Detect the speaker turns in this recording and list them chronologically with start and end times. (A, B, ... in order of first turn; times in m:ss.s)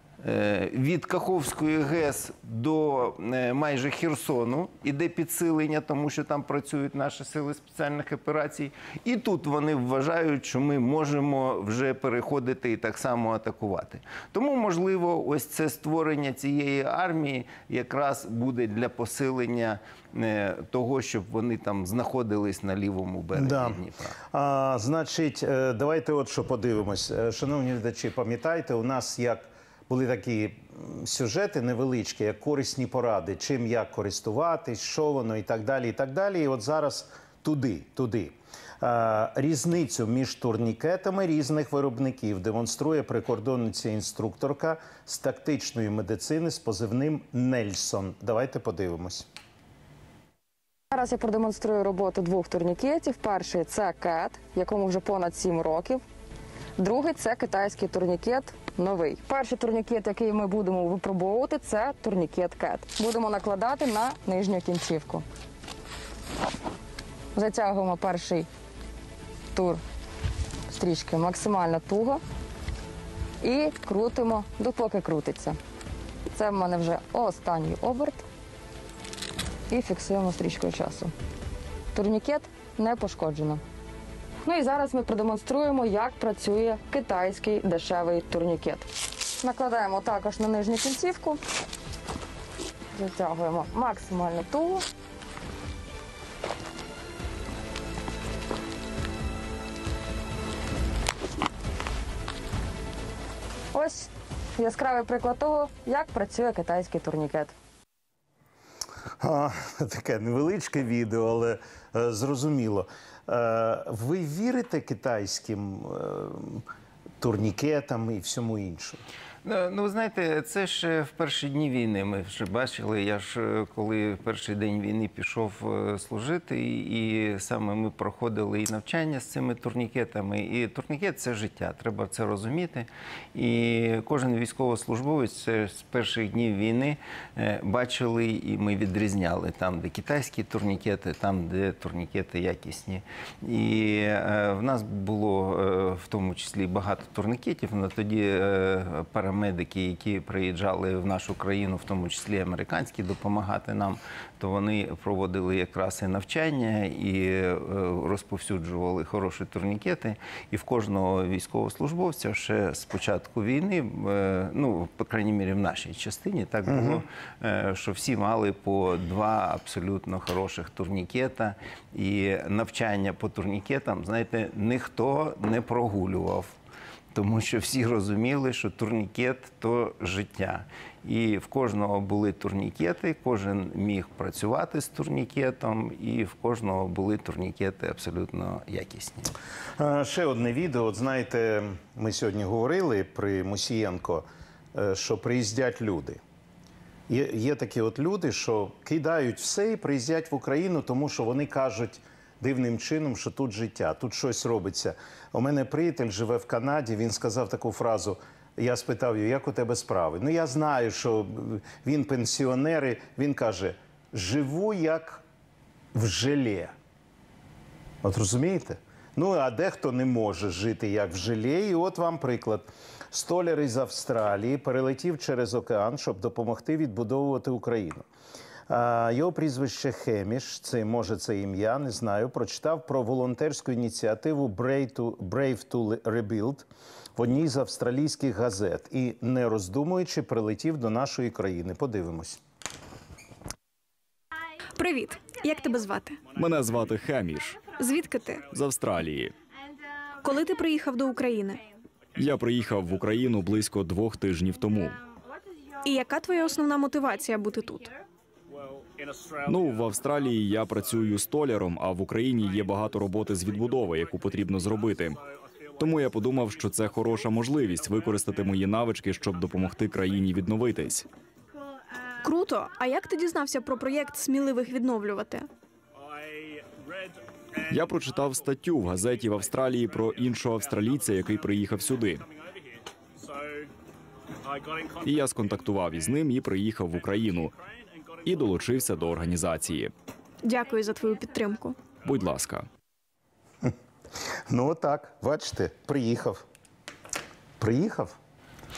0:00.2-0:24.2 A
0:23.3-0:23.8 B
0:24.3-0:49.3 B
0:50.9-0:56.0 C
0:56.8-1:05.2 C
1:07.4-1:08.5 C
1:09.6-1:09.8 C
1:10.7-1:12.2 C
1:13.4-1:15.6 C
1:16.3-1:18.2 C
1:19.7-1:21.1 C
1:21.9-1:23.6 C
1:24.5-1:28.9 C
1:29.4-1:31.4 C
1:33.0-1:34.8 C
1:43.7-1:47.5 C
1:49.2-1:56.6 B
1:57.2-1:59.0 B
1:59.4-2:56.6 A
2:46.7-2:47.0 B
2:57.1-3:09.3 A
3:09.8-3:16.2 B
3:17.1-3:35.2 B
3:35.9-3:36.7 B
3:38.0-3:48.1 B
3:48.7-4:02.4 B
4:04.8-4:06.2 D
4:06.3-4:07.6 E
4:07.5-4:08.5 D
4:08.5-4:09.3 E
4:10.2-4:11.6 D
4:12.2-4:15.0 E
4:15.8-4:17.9 D
4:19.4-4:25.2 E
4:25.8-4:31.1 E
4:32.2-4:35.5 D
4:37.7-4:42.2 E
4:45.0-4:47.5 E
4:48.2-4:49.9 E
4:50.4-4:51.8 D
4:52.0-4:52.7 E
4:54.5-4:56.4 B
4:57.6-4:58.2 B